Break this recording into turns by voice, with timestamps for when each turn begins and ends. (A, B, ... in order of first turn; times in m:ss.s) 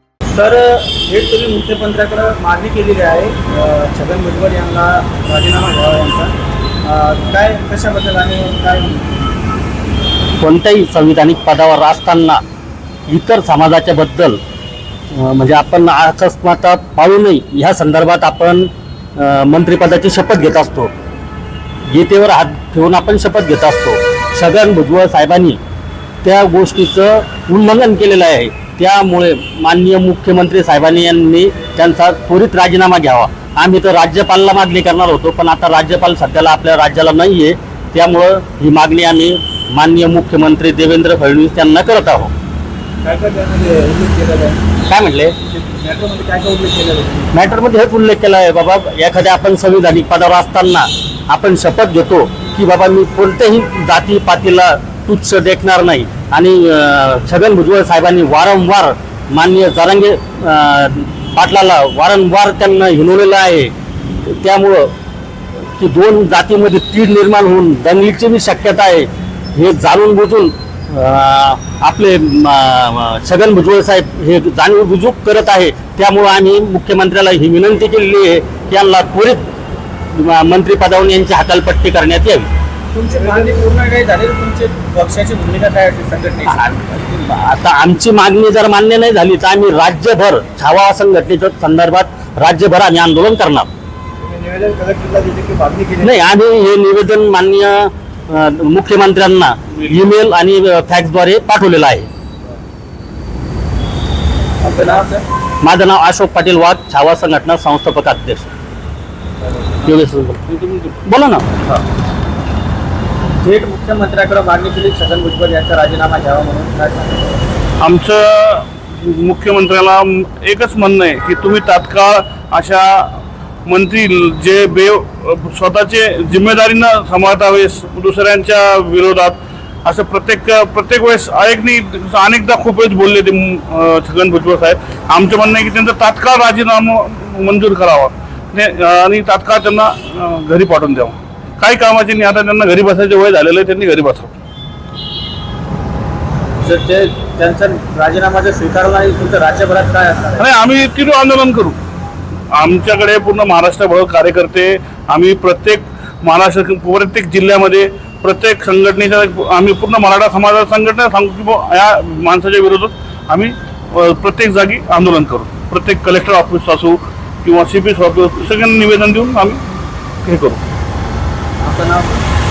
0:00.3-0:06.3 A
0:06.8-0:09.3 A
0:10.4-0:12.4 B
0:13.1-0:14.4 B
0:15.1-0:20.9 B
0:21.9-0:25.6 B
0:26.2-0:42.3 B
0:44.9-0:45.4 B
0:45.8-0:47.2 A
0:47.3-1:04.9 B
1:05.8-1:19.4 B
1:20.1-1:22.5 B
1:22.9-1:26.6 A
1:26.5-1:33.7 B
1:36.0-1:42.1 B
1:44.6-1:45.2 A
1:45.6-1:48.5 B
1:49.8-1:50.4 B
1:50.5-1:51.0 C
1:51.1-1:51.4 B
1:53.4-1:57.4 A
1:57.8-2:24.4 C
2:26.6-2:30.5 A
2:30.4-2:31.8 C
2:32.5-2:50.6 C
2:51.6-2:52.2 A